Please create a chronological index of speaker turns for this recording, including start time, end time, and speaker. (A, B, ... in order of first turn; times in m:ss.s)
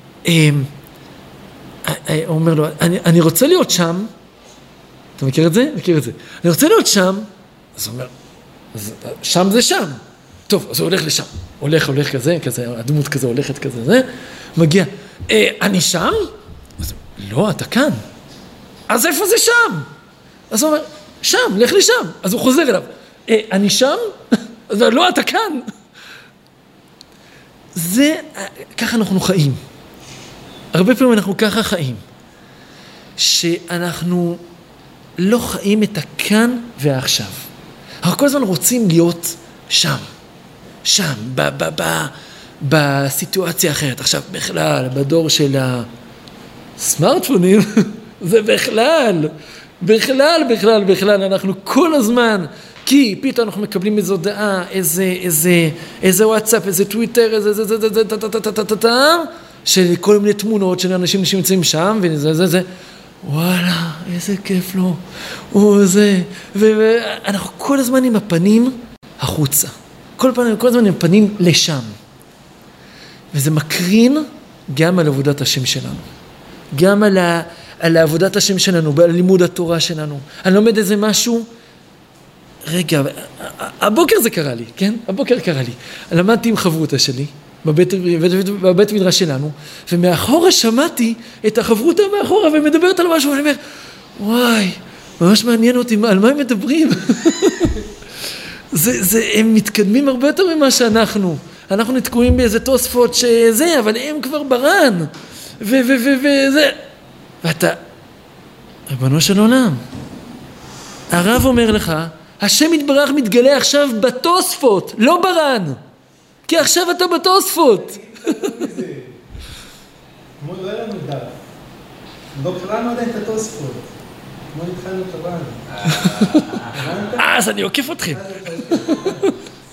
0:00.2-0:00.7 A
0:01.8-0:04.1 A
0:05.2-0:08.1 A
0:08.7-0:16.3 A
0:16.8-0:18.0 A
0:18.9-0:19.9 A
0:20.5-0:25.6 A
0:27.8-0:29.6 A
0:30.7-0:32.0 A
0:33.2-0:34.4 A
0:35.2-0:37.5 A
0:38.0-0:40.1 A
0:40.8-0:45.9 A
0:46.8-1:02.7 A
1:03.2-1:11.9 A
1:13.3-1:16.0 A
1:16.7-1:21.5 A
1:22.6-1:33.6 A
1:34.2-1:37.8 A
1:38.7-1:46.8 A
1:47.4-1:47.8 A
1:48.9-1:49.8 A
1:51.1-1:55.8 A
1:56.5-1:58.6 A
1:57.7-1:59.2 B
2:00.4-2:01.3 B
2:02.3-2:03.9 B
2:04.5-2:06.1 B
2:05.8-2:06.6 A
2:06.6-2:07.4 B
2:07.2-2:09.3 A
2:08.0-2:09.4 B